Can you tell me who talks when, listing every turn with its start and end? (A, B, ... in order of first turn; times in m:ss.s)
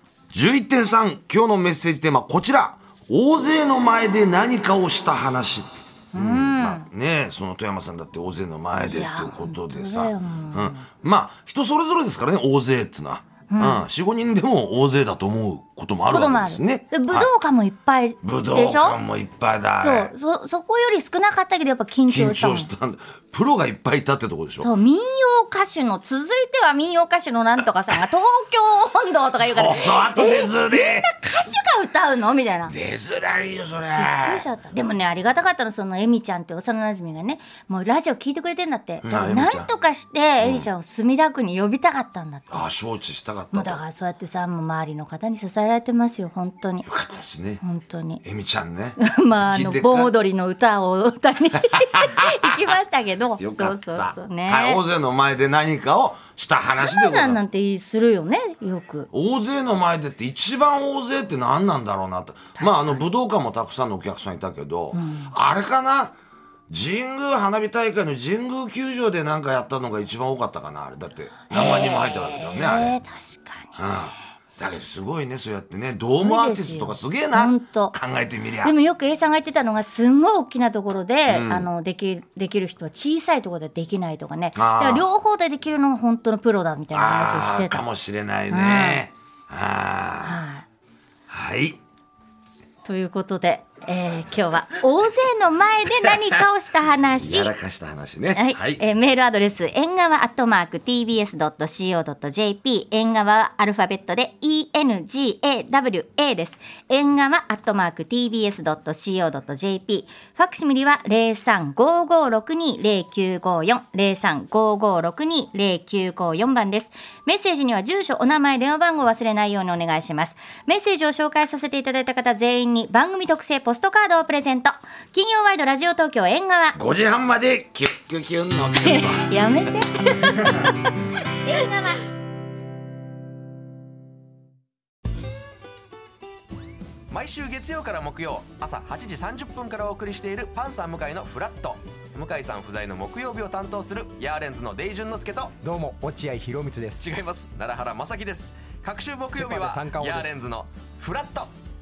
0:00.3-0:17.3 A
0:06.1-0:06.9 B
0:08.8-0:10.8 B
0:13.5-0:13.8 B
0:16.1-0:19.0 B
0:18.2-0:20.1 A
0:19.8-0:22.7 B
0:22.1-0:24.7 A
0:24.6-0:32.7 B
0:29.4-0:31.1 A
0:32.7-0:34.4 A
0:33.9-0:42.7 B
0:39.0-0:39.7 A
0:40.4-0:40.7 A
0:42.5-0:43.8 A
0:43.5-0:46.8 B
0:46.8-0:47.6 A
0:47.6-0:48.2 B
0:48.2-0:50.1 A
0:49.0-0:54.8 B
0:51.8-0:52.5 A
0:53.4-0:57.4 A
0:56.8-0:59.1 B
0:59.1-1:06.2 A
1:02.6-1:03.0 B
1:04.9-1:05.3 B
1:06.7-1:13.0 A
1:11.5-1:13.8 B
1:13.8-1:18.7 A
1:16.2-1:17.9 B
1:18.6-1:27.8 B
1:21.3-1:21.7 A
1:24.6-1:25.1 A
1:26.9-1:30.4 A
1:28.5-1:29.0 B
1:30.2-1:30.6 B
1:31.3-1:31.8 A
1:32.8-1:37.5 B
1:37.2-1:38.8 A
1:38.3-2:06.8 B
2:06.8-2:09.3 A
2:08.8-2:10.7 B
2:11.3-2:12.0 B
2:17.1-2:25.6 C
2:25.6-2:27.1 D
2:27.0-2:31.5 C
2:29.3-2:30.4 D